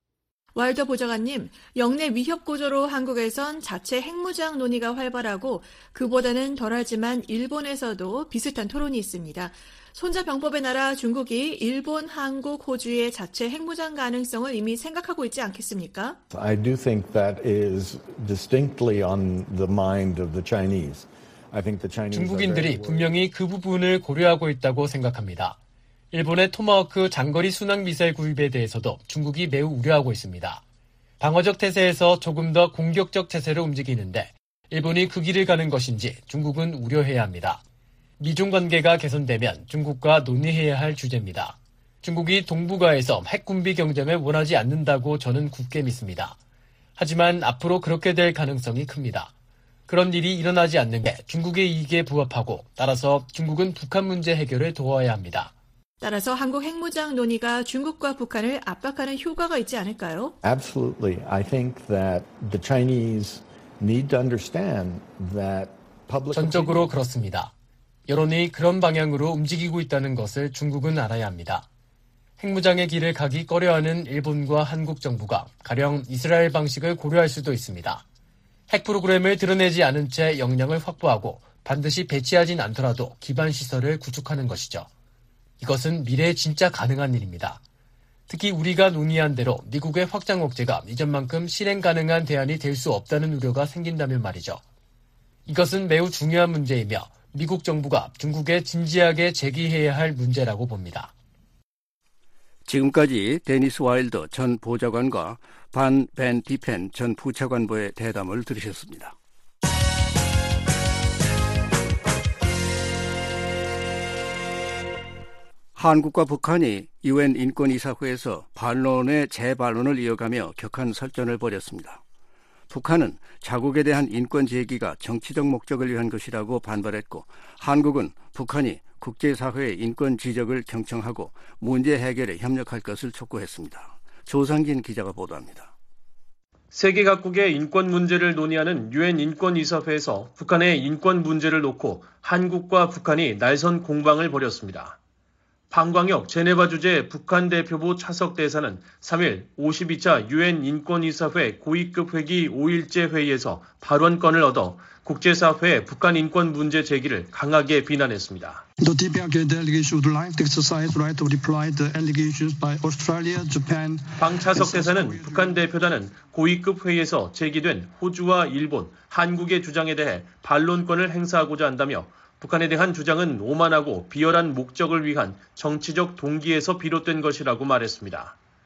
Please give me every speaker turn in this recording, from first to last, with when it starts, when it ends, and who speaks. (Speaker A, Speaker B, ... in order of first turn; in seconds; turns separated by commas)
Speaker A: 0.6-16.2, Speaker B: 16.3-23.2, Speaker C: 22.1-25.6, Speaker C: 26.1-30.6, Speaker C: 31.2-37.6, Speaker C: 38.2-46.4, Speaker C: 47.0-49.3, Speaker C: 49.9-55.5, Speaker A: 56.0-60.4, Speaker B: 60.4-66.9, Speaker C: 66.3-67.5, Speaker C: 68.1-71.7, Speaker C: 72.4-78.0, Speaker C: 78.7-84.9, Speaker C: 85.6-87.6, Speaker C: 88.3-94.6, Speaker C: 95.5-101.1, Speaker D: 102.7-109.2, Speaker D: 115.8-122.0, Speaker D: 122.7-135.7, Speaker E: 136.7-145.0, Speaker E: 145.7-158.7, Speaker F: 158.8-165.7, Speaker E: 164.2-178.4